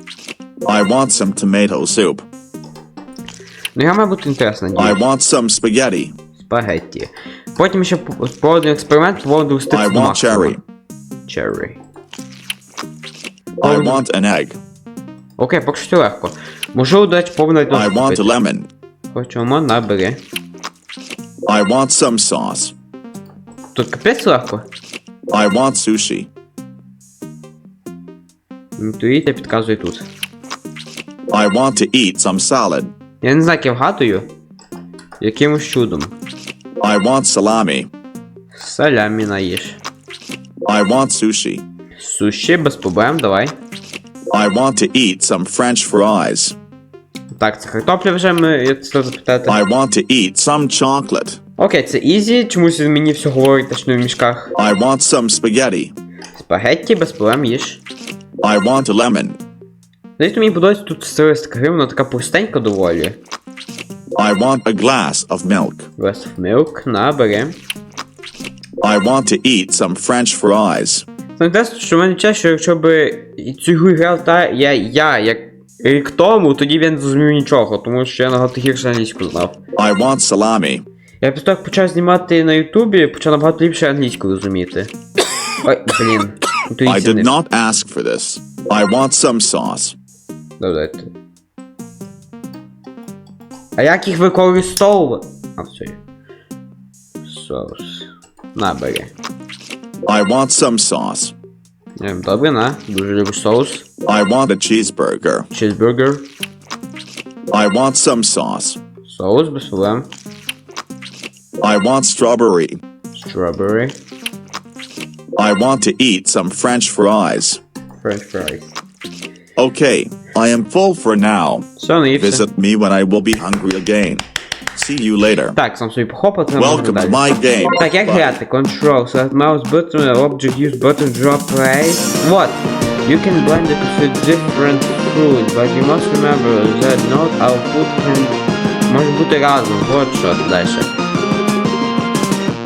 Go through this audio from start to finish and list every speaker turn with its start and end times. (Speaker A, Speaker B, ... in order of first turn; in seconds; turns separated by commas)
Speaker A: 0.7-2.3, Speaker B: 3.8-5.0, Speaker A: 4.8-6.2, Speaker B: 6.4-10.6, Speaker A: 9.7-10.6, Speaker B: 11.3-11.8, Speaker A: 13.6-14.6, Speaker B: 13.6-14.0, Speaker B: 15.4-18.4, Speaker A: 17.7-18.7, Speaker B: 19.1-20.2, Speaker A: 21.5-22.7, Speaker B: 23.7-24.6, Speaker A: 25.3-26.3, Speaker B: 28.8-30.1, Speaker A: 31.3-32.9, Speaker B: 33.2-34.3, Speaker B: 35.2-36.1, Speaker A: 36.8-37.9, Speaker B: 38.5-39.8, Speaker A: 40.6-41.6, Speaker B: 42.0-43.5, Speaker A: 44.3-46.6, Speaker B: 47.3-49.6, Speaker A: 49.5-51.4, Speaker B: 51.6-54.5, Speaker A: 54.6-55.9, Speaker B: 56.4-57.8, Speaker A: 58.4-59.4, Speaker B: 60.2-63.2, Speaker A: 64.2-65.9, Speaker B: 66.0-67.6, Speaker A: 68.8-71.0, Speaker B: 71.4-79.6, Speaker A: 79.8-80.8, Speaker B: 81.2-84.9, Speaker B: 85.6-87.3, Speaker A: 86.9-90.0, Speaker B: 90.6-91.1, Speaker B: 93.8-96.0, Speaker B: 97.2-99.1, Speaker A: 100.1-101.3, Speaker B: 102.0-103.9, Speaker A: 104.0-105.5, Speaker B: 105.5-106.3, Speaker A: 107.5-108.8, Speaker B: 109.0-110.1, Speaker A: 111.6-112.8, Speaker B: 113.1-114.0, Speaker A: 115.4-117.6, Speaker B: 118.0-118.8, Speaker A: 119.6-121.7, Speaker B: 121.8-122.5, Speaker A: 122.2-125.6, Speaker B: 125.5-127.2, Speaker A: 126.6-128.4, Speaker B: 127.8-140.9